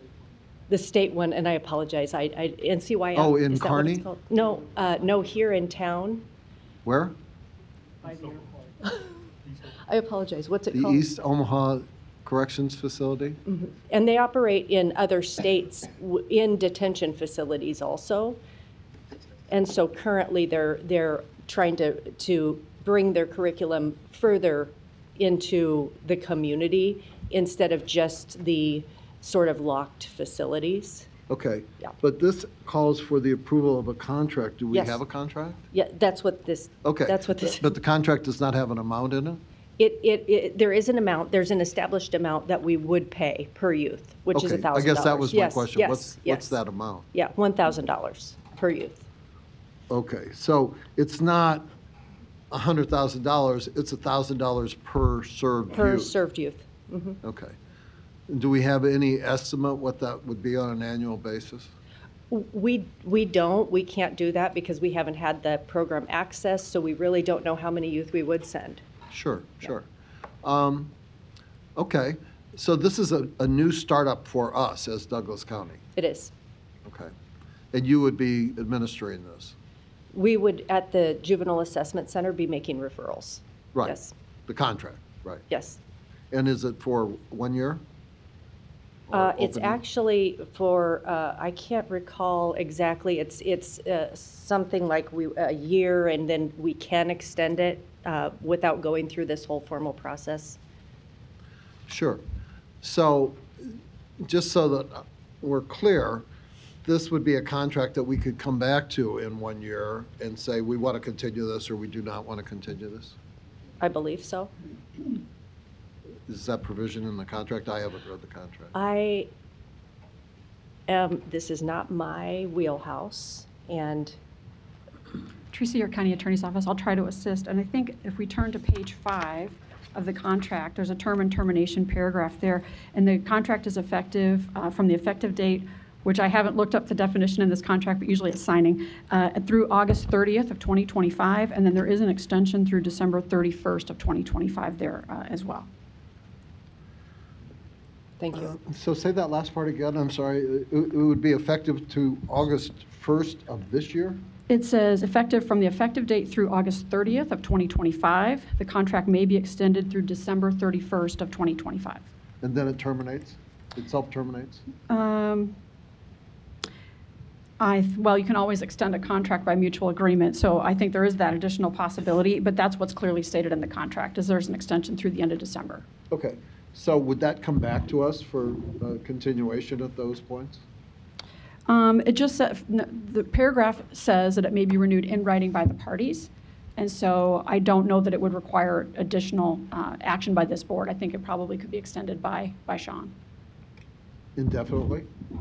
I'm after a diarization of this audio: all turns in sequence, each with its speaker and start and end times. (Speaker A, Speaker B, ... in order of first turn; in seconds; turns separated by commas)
Speaker A: 0.7-6.2, Speaker B: 3.1-4.1, Speaker B: 6.8-7.1, Speaker A: 8.1-9.1, Speaker A: 9.9-11.0, Speaker B: 10.7-13.4, Speaker A: 13.4-18.4, Speaker A: 19.5-31.1, Speaker B: 31.3-35.6, Speaker A: 34.7-35.0, Speaker A: 35.7-37.7, Speaker B: 36.8-39.4, Speaker A: 39.8-46.6, Speaker B: 44.3-47.0, Speaker A: 47.1-49.0, Speaker B: 49.9-51.6, Speaker B: 52.5-56.1, Speaker A: 55.7-57.2, Speaker B: 57.2-57.5, Speaker B: 58.3-61.7, Speaker A: 62.3-68.8, Speaker B: 69.1-69.9, Speaker B: 70.4-70.9, Speaker B: 71.8-75.8, Speaker A: 76.0-76.3, Speaker B: 76.8-77.1, Speaker B: 77.7-79.5, Speaker A: 80.1-84.1, Speaker B: 83.7-85.4, Speaker A: 85.5-85.8, Speaker B: 86.3-87.8, Speaker B: 89.1-89.8, Speaker A: 89.1-100.6, Speaker B: 101.9-102.2, Speaker B: 102.8-103.4, Speaker B: 104.2-106.2, Speaker B: 106.8-113.1, Speaker A: 113.8-114.5, Speaker B: 116.3-118.7, Speaker A: 118.7-119.3, Speaker A: 120.9-124.2, Speaker C: 125.5-145.7, Speaker A: 148.2-148.5, Speaker B: 148.3-154.2, Speaker C: 154.5-162.1, Speaker B: 162.4-164.6, Speaker C: 164.9-165.6, Speaker C: 167.6-175.8, Speaker B: 176.1-180.6, Speaker C: 181.7-193.1, Speaker B: 194.3-195.1